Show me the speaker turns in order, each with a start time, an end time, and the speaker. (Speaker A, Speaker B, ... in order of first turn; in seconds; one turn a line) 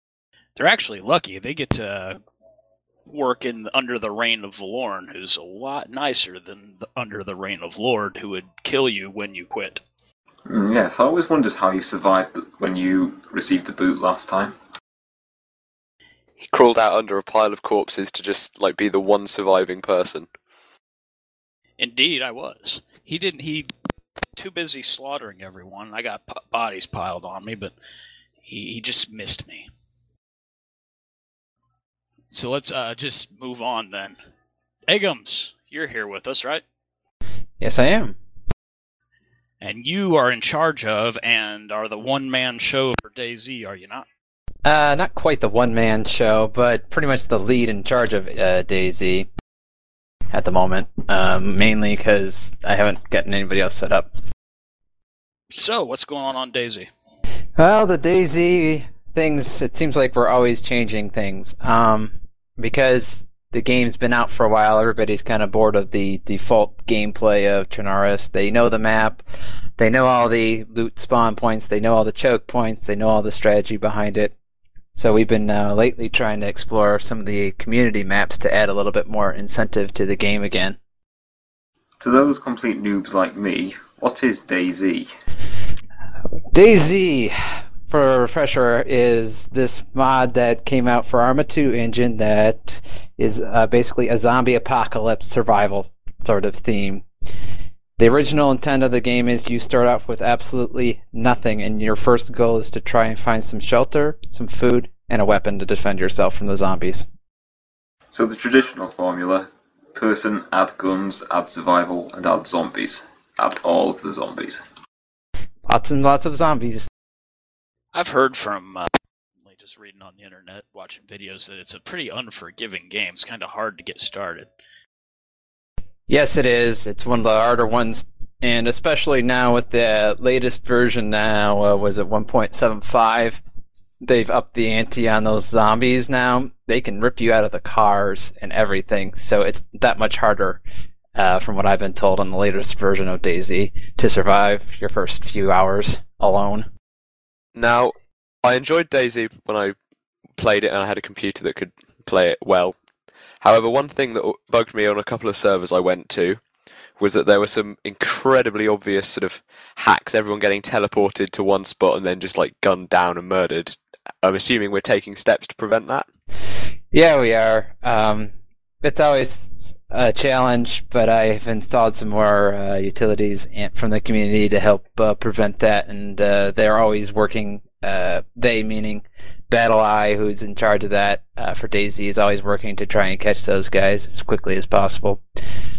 Speaker A: 0.6-2.2
Speaker A: 3.1-9.8
Speaker B: 10.5-14.6
Speaker C: 16.4-20.3
Speaker A: 21.8-23.7
Speaker A: 24.4-27.7
Speaker A: 28.4-29.7
Speaker A: 32.3-34.2
Speaker A: 34.9-36.6
Speaker D: 37.6-38.2
Speaker A: 39.6-44.1
Speaker D: 44.6-49.3
Speaker D: 50.3-54.1
Speaker A: 55.5-56.9
Speaker D: 57.6-69.2
Speaker D: 69.8-74.3
Speaker D: 74.9-80.8
Speaker B: 82.0-85.1
Speaker D: 86.5-97.1
Speaker D: 98.0-107.1
Speaker B: 108.1-114.6
Speaker D: 115.7-116.9
Speaker A: 117.9-118.9
Speaker A: 119.5-124.5
Speaker D: 126.1-133.4
Speaker D: 134.0-140.6
Speaker D: 141.2-146.7
Speaker C: 147.6-149.7
Speaker C: 150.4-152.8
Speaker C: 153.4-156.4
Speaker C: 157.0-166.1
Speaker D: 166.9-185.2